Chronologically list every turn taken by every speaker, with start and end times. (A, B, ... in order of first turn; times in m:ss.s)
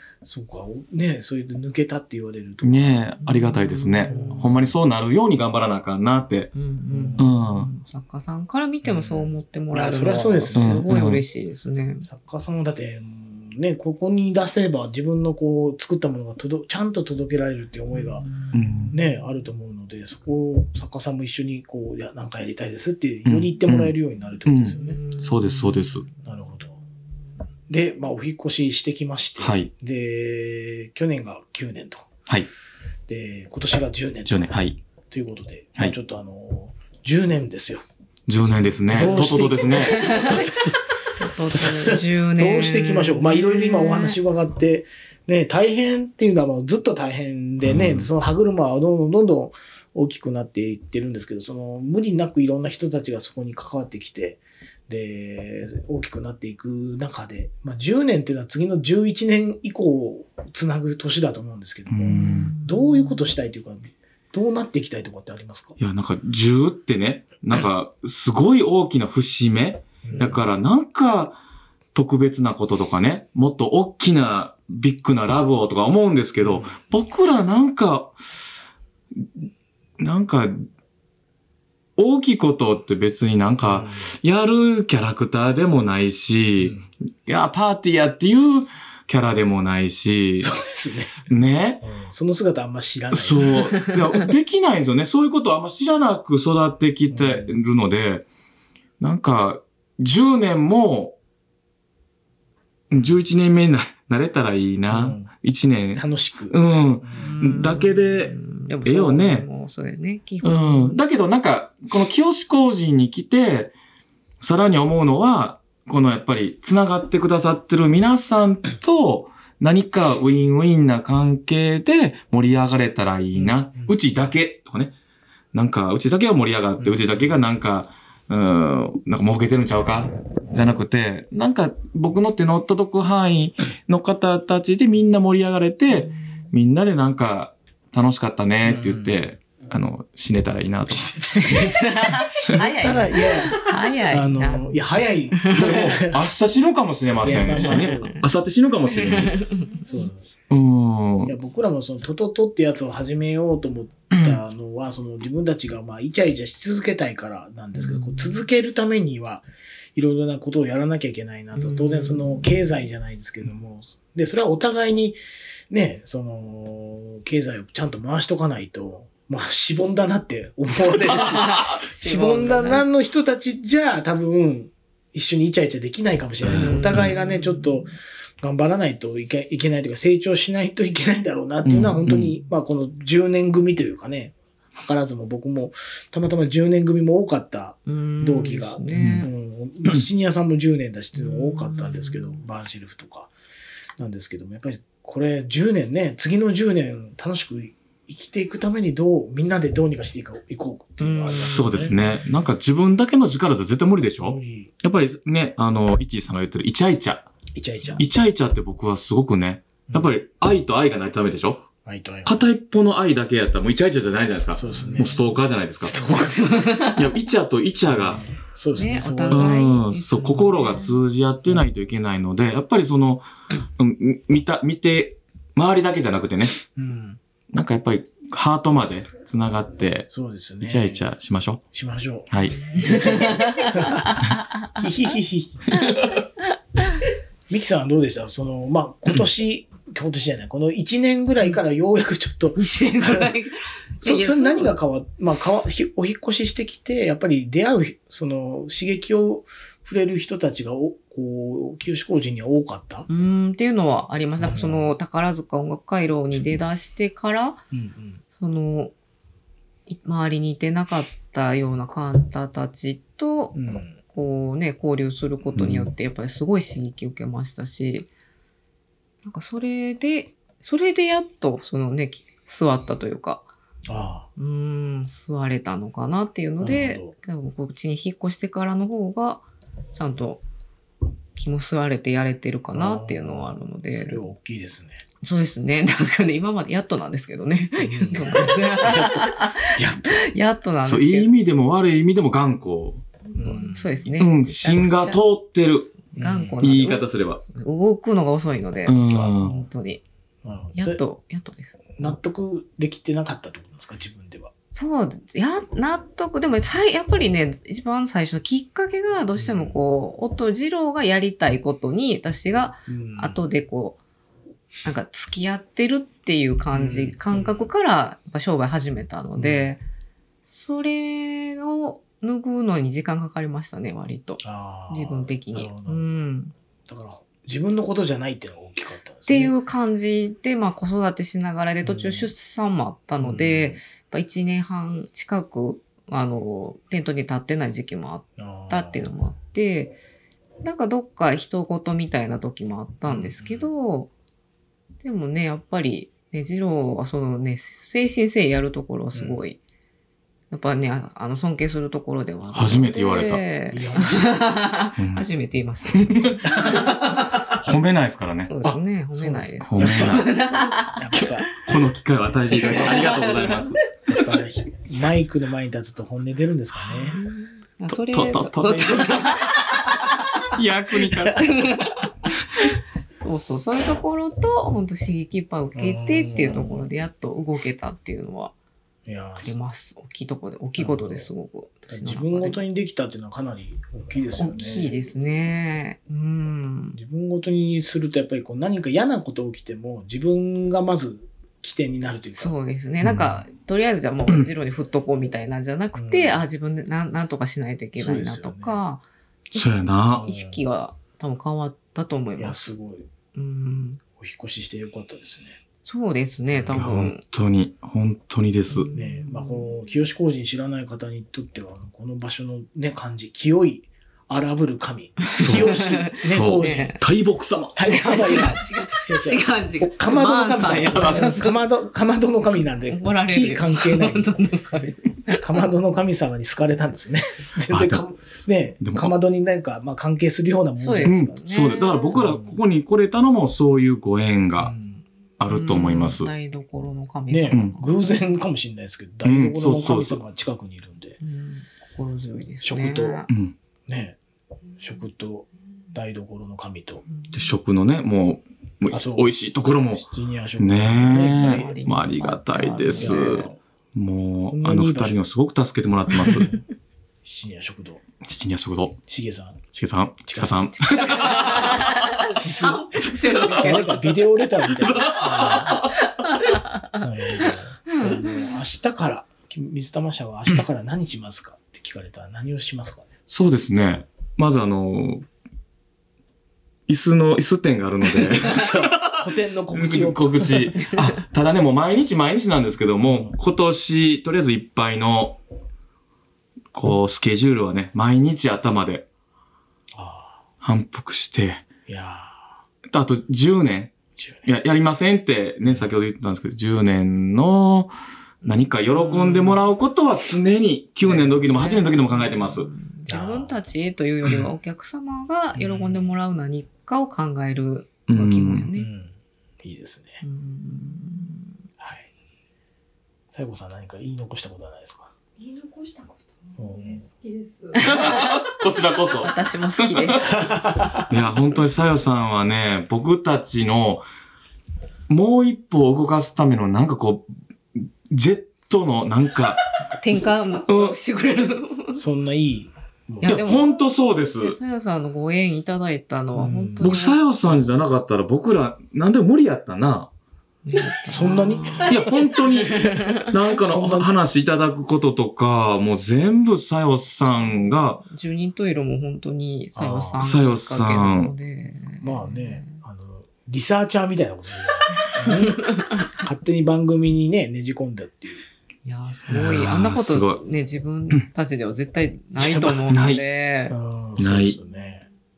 0:00.2-0:03.1 A
0:02.6-0:06.5 B
0:03.2-0:04.5 C
0:04.1-0:04.7 A
0:06.6-0:12.1 C
0:06.9-0:07.2 A
0:07.2-0:07.7 B
0:08.8-0:10.9 A
0:10.6-0:11.2 B
0:12.0-0:18.3 A
0:17.9-0:19.0 C
0:18.5-0:18.9 B
0:18.9-0:25.0 A
0:23.3-0:26.0 B
0:24.7-0:26.1 C
0:26.2-0:26.8 A
0:27.7-0:32.1 A
0:29.4-0:29.7 B
0:33.1-0:34.6 A
0:34.2-0:34.8 B
0:35.1-0:37.8 A
0:38.3-0:40.0 B
0:38.9-0:40.8 A
0:39.7-0:40.6 C
0:41.2-0:44.2 C
0:41.5-1:05.8 A
0:47.6-0:48.1 B
1:01.9-1:02.5 B
1:02.1-1:03.3 C
1:05.8-1:11.4 B
1:10.0-1:10.4 A
1:11.9-1:18.2 B
1:16.4-1:16.8 A
1:20.0-1:20.6 B
1:22.0-1:30.5 B
1:23.6-1:24.1 A
1:26.6-1:26.9 A
1:30.4-1:31.3 A
1:31.3-1:31.8 B
1:31.8-1:33.6 A
1:33.1-1:38.3 B
1:33.4-1:33.9 C
1:37.1-1:37.5 A
1:39.0-1:41.2 B
1:42.9-1:49.5 B
1:44.9-1:45.3 A
1:46.0-1:47.4 A
1:47.1-1:51.0 C
1:50.4-1:53.7 B
1:54.4-2:04.9 B
2:03.4-2:04.0 A
2:05.5-2:21.1 B
2:06.8-2:07.4 A
2:15.9-2:16.2 C
2:18.6-2:19.2 A
2:20.9-2:26.2 A
2:21.2-2:25.9 C
2:25.5-2:29.5 B
2:27.2-2:28.2 A
2:27.5-2:28.2 C
2:28.9-2:29.8 C
2:29.8-2:30.2 A
2:30.5-2:31.3 B
2:31.2-2:57.9 A
2:37.8-2:38.4 C
2:41.6-2:42.5 C
2:51.1-2:52.8 C
2:56.4-2:57.1 B
2:56.6-2:58.0 C
2:58.4-3:13.3 A
3:01.7-3:02.3 B
3:07.9-3:09.3 C
3:08.9-3:09.3 B
3:11.2-3:12.4 C
3:14.0-3:22.0 A
3:21.0-3:22.0 C
3:21.3-3:27.2 B
3:24.2-3:24.7 A
3:27.6-3:28.0 A
3:28.0-3:31.7 B
3:29.9-3:30.1 A
3:31.8-3:32.5 A
3:32.2-3:36.0 B
3:34.5-3:35.2 A
3:34.6-3:35.2 C
3:35.8-3:36.4 A
3:35.9-3:37.1 C
3:37.0-3:38.2 B
3:37.9-3:39.6 A
3:38.8-3:40.9 C
3:39.3-3:43.3 B
3:43.8-3:46.6 B
3:46.8-3:47.2 A
3:47.5-3:50.1 B
3:50.1-3:51.0 A
3:50.6-3:51.6 B
3:51.7-3:55.9 A
3:52.3-3:53.0 B
3:52.8-3:54.7 C
3:55.8-3:56.2 C
3:57.5-4:03.4 A
4:02.6-4:04.8 C
4:04.0-4:13.1 A
4:13.1-4:17.6 C
4:14.4-4:14.9 A
4:17.7-4:18.2 A
4:18.4-4:18.9 C
4:19.9-4:28.1 C
4:23.5-4:24.0 A
4:25.6-4:25.9 B
4:29.2-4:33.5 C
4:33.9-4:34.3 A
4:34.4-4:40.4 C
4:36.6-4:37.2 A
4:41.4-4:44.2 C
4:42.7-4:45.0 A
4:45.2-4:51.3 C
4:47.8-4:50.1 A
4:50.8-4:53.0 B
4:53.4-4:53.9 A
4:53.4-4:55.2 C
4:54.2-4:55.9 B
4:56.1-5:00.0 C
4:56.2-4:56.6 A
4:56.6-4:57.4 B
4:58.9-4:59.5 B
4:59.4-4:59.7 A
5:00.4-5:01.0 A
5:00.8-5:02.1 C
5:02.0-5:04.5 A
5:04.7-5:14.0 C
5:09.4-5:09.8 A
5:12.9-5:13.4 A
5:14.8-5:19.8 C
5:16.7-5:17.7 A
5:19.4-5:19.7 A
5:20.5-5:26.5 C
5:24.4-5:26.1 A
5:26.9-5:29.5 A
5:29.3-5:40.0 C
5:31.8-5:32.3 A
5:33.2-5:33.8 A
5:38.4-5:39.1 A
5:40.6-5:44.1 C
5:43.1-5:43.7 A
5:45.0-5:49.6 C
5:49.1-5:49.4 A
5:50.5-5:57.0 C
5:52.5-5:53.4 B
5:53.7-5:54.5 A
5:55.0-5:55.2 B
5:55.9-5:56.4 B
5:56.5-5:57.4 A
5:57.5-5:58.5 B
5:58.4-6:01.6 C
5:58.6-6:01.5 A
5:59.7-6:00.3 B
6:01.1-6:03.8 B
6:02.5-6:03.8 C
6:02.5-6:03.1 A
6:04.1-6:07.2 A
6:06.8-6:10.1 C
6:07.9-6:09.5 B
6:10.5-6:11.5 B
6:11.1-6:11.5 A
6:11.2-6:12.1 C
6:13.2-6:18.5 C
6:15.8-6:16.9 A
6:19.0-6:19.5 A
6:19.4-6:22.6 C
6:20.8-6:21.3 A
6:21.9-6:25.0 A
6:24.4-6:27.0 C
6:27.0-6:32.6 A
6:32.3-6:39.0 C
6:33.0-6:33.4 B
6:35.9-6:36.4 A
6:38.0-6:38.8 A
6:39.5-6:40.3 B
6:39.5-6:42.6 C
6:40.2-6:40.6 A
6:42.4-6:43.1 A
6:43.4-6:44.0 C
6:44.2-6:45.6 A
6:45.8-6:47.2 C
6:46.5-6:47.1 A
6:46.7-6:48.9 B
6:48.7-6:49.7 C
6:48.9-6:57.0 A
6:55.2-6:57.0 C
6:55.4-6:55.7 B
6:56.3-6:57.8 B
6:57.8-7:04.4 A
6:57.8-7:01.7 C
7:01.0-7:01.2 B
7:02.9-7:05.6 C
7:05.4-7:11.4 A
7:07.7-7:08.0 B
7:08.8-7:09.1 B
7:10.8-7:12.2 C
7:11.0-7:14.7 B
7:12.1-7:12.6 A
7:14.6-7:15.0 A
7:15.4-7:16.3 B
7:15.5-7:17.9 C
7:17.3-7:21.2 A
7:19.2-7:20.2 B
7:21.2-7:23.3 C
7:22.6-7:23.2 A
7:23.3-7:23.6 B
7:23.9-7:24.2 A
7:24.8-7:27.0 A
7:27.3-7:30.1 B
7:28.9-7:31.8 A
7:30.6-7:36.5 B
7:31.1-7:33.5 C
7:33.0-7:33.6 A
7:34.5-7:35.2 A
7:36.2-7:36.6 A
7:37.2-7:38.0 A
7:38.2-7:39.0 B
7:39.1-7:39.6 A
7:39.7-7:41.8 B
7:40.2-7:45.9 A
7:40.8-7:44.3 C
7:43.4-7:43.7 B
7:44.8-7:46.0 B
7:45.9-7:48.5 C
7:47.0-7:53.1 A
7:53.3-7:55.3 B
7:56.9-8:05.4 B
7:58.3-8:00.7 A
8:03.0-8:03.4 A
8:06.7-8:09.1 B
8:09.9-8:10.4 A
8:10.6-8:11.6 B
8:11.9-8:12.4 A
8:12.9-8:13.9 B
8:14.2-8:14.5 A
8:14.5-8:17.9 B
8:15.6-8:15.9 A
8:18.4-8:22.7 B
8:18.9-8:19.6 C
8:21.0-8:21.5 A
8:21.4-8:28.9 C
8:23.1-8:23.6 A
8:25.6-8:26.1 A
8:28.1-8:28.7 B
8:28.7-8:29.1 A
8:29.6-8:30.2 A
8:30.2-8:31.6 C
8:31.8-8:32.1 A
8:33.3-8:35.1 A
8:35.4-8:38.2 D
8:36.6-8:37.1 A
8:37.8-8:38.5 C
8:37.8-8:40.3 B
8:39.2-8:40.3 C
8:40.2-8:41.1 A
8:41.1-8:44.0 B
8:45.1-8:47.3 B
8:47.8-8:49.6 B
8:50.0-8:52.0 C
8:50.7-8:51.0 B
8:51.9-8:53.5 A
8:53.2-8:57.2 C
8:53.2-8:54.6 B
8:56.4-8:57.0 A
8:56.8-9:00.1 B
9:00.6-9:03.3 C
9:01.1-9:02.2 A
9:01.9-9:08.0 B
9:02.9-9:04.1 A
9:08.0-9:12.8 C
9:09.8-9:10.2 A
9:10.2-9:11.3 B
9:12.0-9:18.4 A
9:15.0-9:16.1 C
9:18.8-9:23.8 C
9:19.3-9:20.4 B
9:22.4-9:23.0 A
9:22.9-9:23.2 B
9:23.7-9:25.0 A
9:24.2-9:24.6 B
9:24.6-9:25.1 D